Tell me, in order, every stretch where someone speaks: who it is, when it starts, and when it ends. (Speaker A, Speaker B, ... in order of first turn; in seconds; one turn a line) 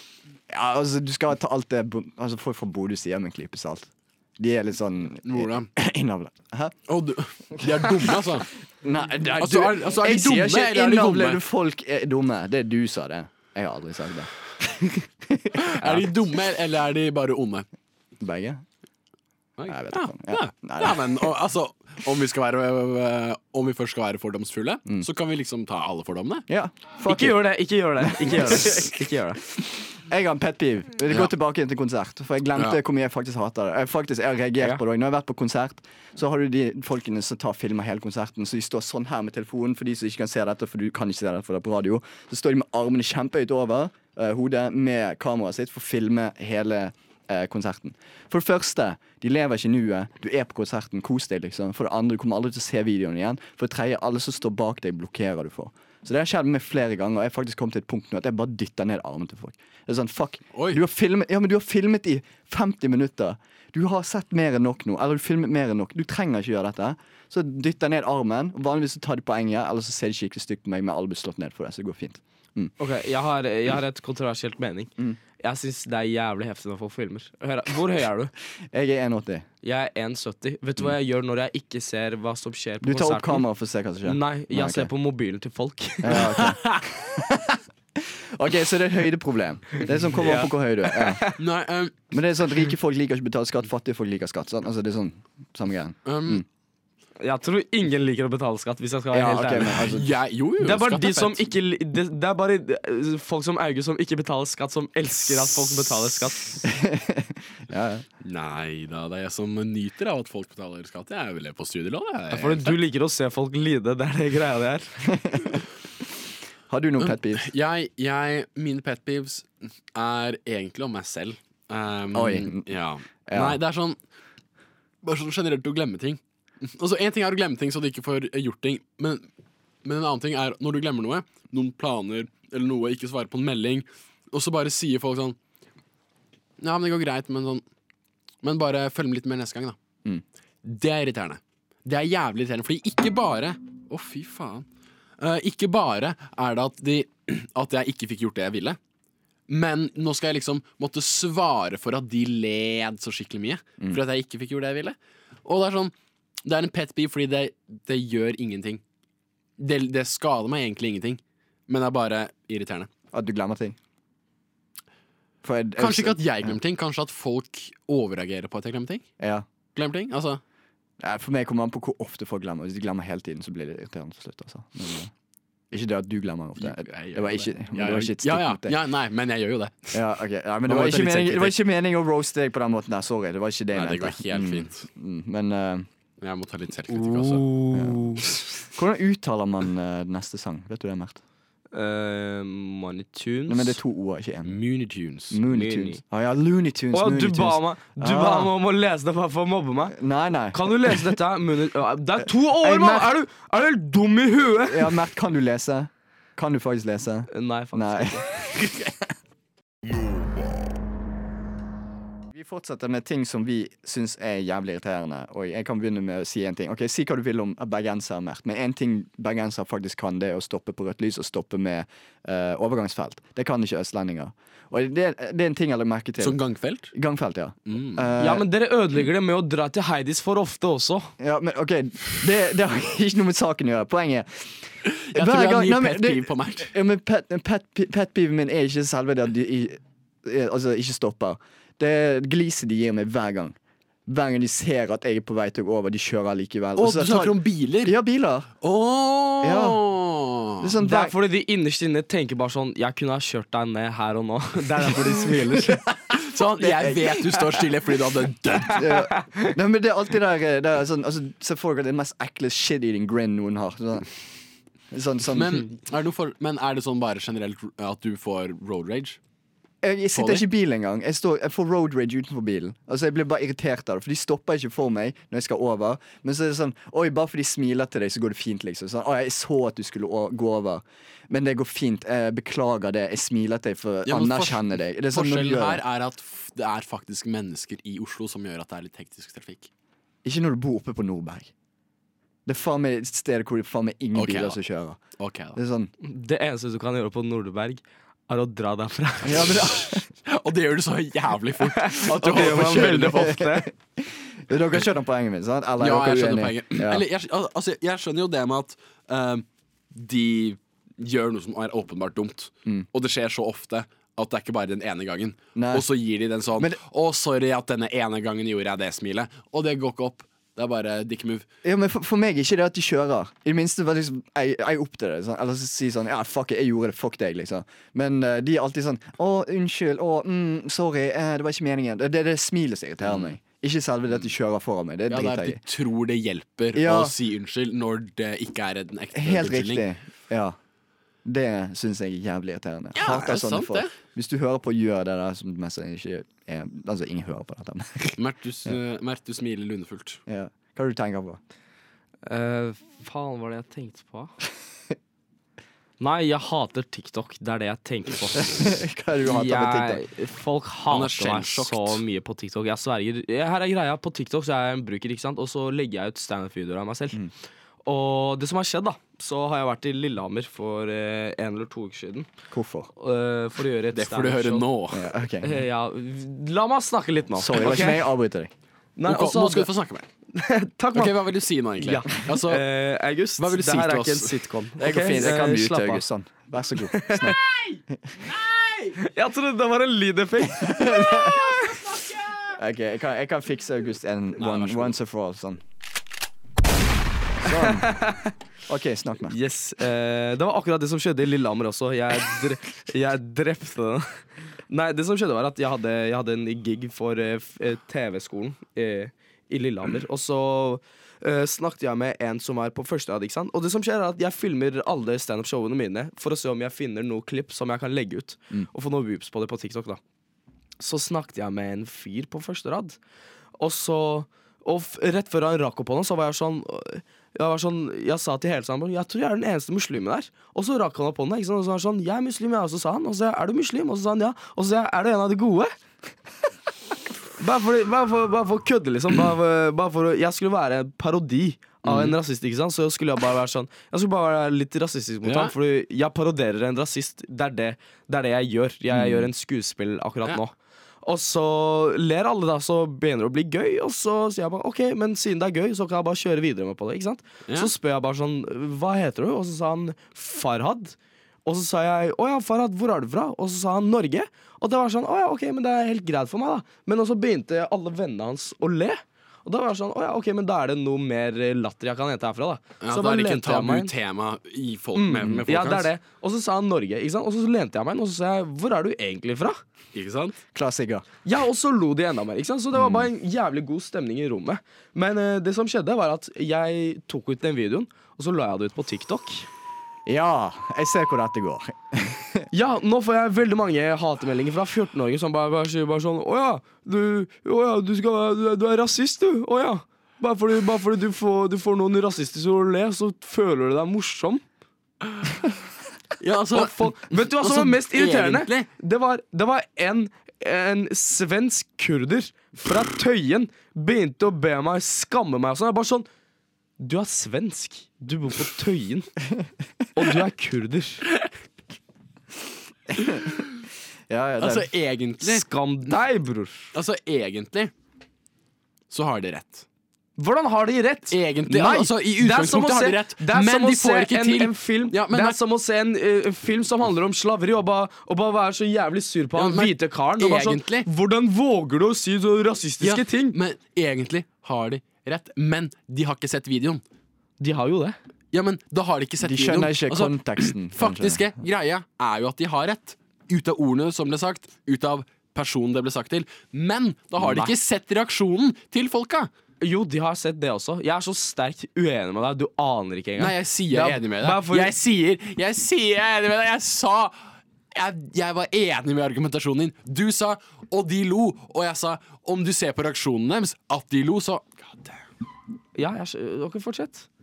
Speaker A: 0.5-6.8
Speaker B: 5.2-5.7
Speaker B: 6.9-8.5
Speaker A: 7.6-8.2
Speaker A: 8.8-16.1
Speaker B: 9.4-11.4
Speaker B: 15.6-17.7
Speaker A: 18.2-18.6
Speaker B: 19.6-26.5
Speaker A: 19.7-21.3
Speaker A: 26.5-29.0
Speaker C: 27.1-29.4
Speaker A: 29.6-72.7
Speaker B: 60.5-60.8
Speaker C: 72.8-78.3
Speaker A: 78.7-79.5
Speaker C: 79.6-83.4
Speaker A: 82.8-84.9
Speaker C: 84.0-86.4
Speaker A: 86.0-91.2
Speaker B: 86.2-86.8
Speaker C: 90.2-91.4
Speaker B: 91.4-92.0
Speaker A: 92.1-96.5
Speaker B: 96.0-96.4
Speaker C: 97.2-99.9
Speaker A: 99.1-100.1
Speaker B: 99.9-101.5
Speaker C: 100.6-106.6
Speaker A: 106.7-108.0
Speaker B: 108.2-112.8
Speaker C: 112.3-115.2
Speaker A: 115.1-115.6
Speaker A: 116.7-117.5
Speaker B: 117.0-124.0
Speaker A: 122.1-122.7
Speaker A: 123.3-123.6
Speaker B: 125.0-129.3
Speaker B: 129.8-135.4
Speaker B: 136.6-137.6
Speaker B: 138.4-139.8
Speaker B: 140.6-144.7
Speaker B: 145.2-148.8
Speaker B: 149.5-155.9
Speaker B: 156.4-158.8
Speaker B: 159.6-162.9
Speaker A: 163.1-163.8
Speaker A: 165.4-166.6
Speaker B: 165.8-169.1
Speaker A: 169.2-169.5
Speaker B: 169.8-170.4
Speaker A: 171.0-175.1
Speaker A: 175.7-178.8
Speaker B: 176.6-180.0
Speaker A: 179.9-185.9
Speaker B: 180.7-181.6
Speaker B: 183.7-184.9
Speaker B: 186.2-187.5
Speaker C: 186.9-188.2
Speaker A: 187.7-188.2
Speaker A: 188.7-191.2
Speaker C: 191.7-193.8
Speaker A: 193.5-194.6
Speaker B: 194.4-195.4
Speaker A: 195.3-198.5
Speaker C: 195.5-196.0
Speaker C: 196.9-200.0
Speaker A: 199.9-201.2
Speaker C: 200.5-205.0
Speaker A: 202.6-203.1
Speaker A: 204.7-209.1
Speaker C: 207.3-208.5
Speaker A: 212.3-226.4
Speaker B: 226.2-226.9
Speaker A: 226.9-228.5
Speaker B: 227.7-228.1
Speaker C: 228.2-231.1
Speaker A: 231.2-243.6
Speaker B: 234.9-236.8
Speaker A: 244.1-248.5
Speaker B: 246.8-247.9
Speaker B: 248.6-250.7
Speaker A: 249.4-249.8
Speaker A: 250.6-251.2
Speaker C: 250.8-255.8
Speaker A: 255.6-257.2
Speaker B: 256.1-258.8
Speaker A: 258.6-264.1
Speaker C: 258.8-259.5
Speaker A: 264.9-265.6
Speaker B: 265.3-269.2
Speaker A: 269.8-285.8
Speaker B: 270.1-270.4
Speaker B: 284.1-289.7
Speaker A: 290.2-291.5
Speaker A: 292.5-295.0
Speaker B: 294.1-294.6
Speaker B: 295.2-295.6
Speaker A: 295.6-295.9
Speaker C: 296.0-299.8
Speaker A: 299.2-300.1
Speaker B: 300.2-303.4
Speaker C: 301.7-303.7
Speaker A: 302.9-307.0
Speaker B: 305.8-321.5
Speaker A: 315.6-315.9
Speaker A: 321.6-335.6
Speaker B: 333.0-333.4
Speaker B: 335.1-339.9
Speaker A: 336.8-337.1
Speaker A: 339.1-340.6
Speaker A: 341.2-348.7
Speaker B: 342.9-343.9
Speaker B: 348.2-350.2
Speaker A: 350.3-351.4
Speaker C: 352.3-354.4
Speaker C: 356.0-358.7
Speaker A: 358.4-360.0
Speaker C: 359.2-367.2
Speaker B: 360.9-362.0
Speaker C: 367.9-372.3
Speaker A: 372.5-372.9
Speaker C: 373.0-374.7
Speaker B: 373.9-375.1
Speaker A: 374.9-375.6
Speaker C: 375.4-378.1
Speaker A: 377.4-378.5
Speaker C: 379.0-379.7
Speaker B: 379.1-380.1
Speaker C: 380.3-381.2
Speaker B: 380.9-382.6
Speaker C: 381.8-386.0
Speaker B: 383.4-385.3
Speaker A: 384.9-387.4
Speaker C: 386.9-387.3
Speaker B: 388.2-388.9
Speaker C: 389.0-391.8
Speaker A: 390.6-391.4
Speaker B: 391.1-392.6
Speaker A: 392.6-395.6
Speaker B: 394.4-394.9
Speaker A: 397.4-398.0
Speaker C: 397.5-398.2
Speaker A: 398.7-399.4
Speaker C: 399.3-420.0
Speaker C: 420.8-423.0
Speaker C: 423.6-435.8
Speaker C: 437.4-473.9
Speaker A: 441.9-442.1
Speaker B: 445.2-445.5
Speaker A: 448.9-449.3
Speaker B: 472.8-475.9
Speaker C: 474.9-479.6
Speaker B: 479.9-480.4
Speaker A: 480.5-481.1
Speaker C: 481.2-489.5
Speaker A: 482.8-483.1
Speaker A: 490.1-492.5
Speaker C: 492.5-504.4
Speaker B: 506.2-508.7
Speaker C: 506.5-516.1
Speaker C: 516.8-519.1
Speaker C: 520.0-521.0
Speaker A: 523.0-523.4
Speaker A: 524.1-524.7
Speaker B: 524.4-525.9
Speaker C: 525.2-526.7
Speaker B: 526.7-527.7
Speaker B: 528.9-529.7
Speaker C: 530.2-543.4
Speaker B: 531.1-535.4
Speaker B: 539.4-540.9
Speaker B: 542.8-546.8
Speaker C: 547.4-548.0
Speaker B: 548.3-559.3
Speaker A: 549.2-551.3
Speaker C: 557.2-557.5
Speaker C: 559.6-564.7
Speaker B: 563.2-575.0
Speaker C: 575.8-577.1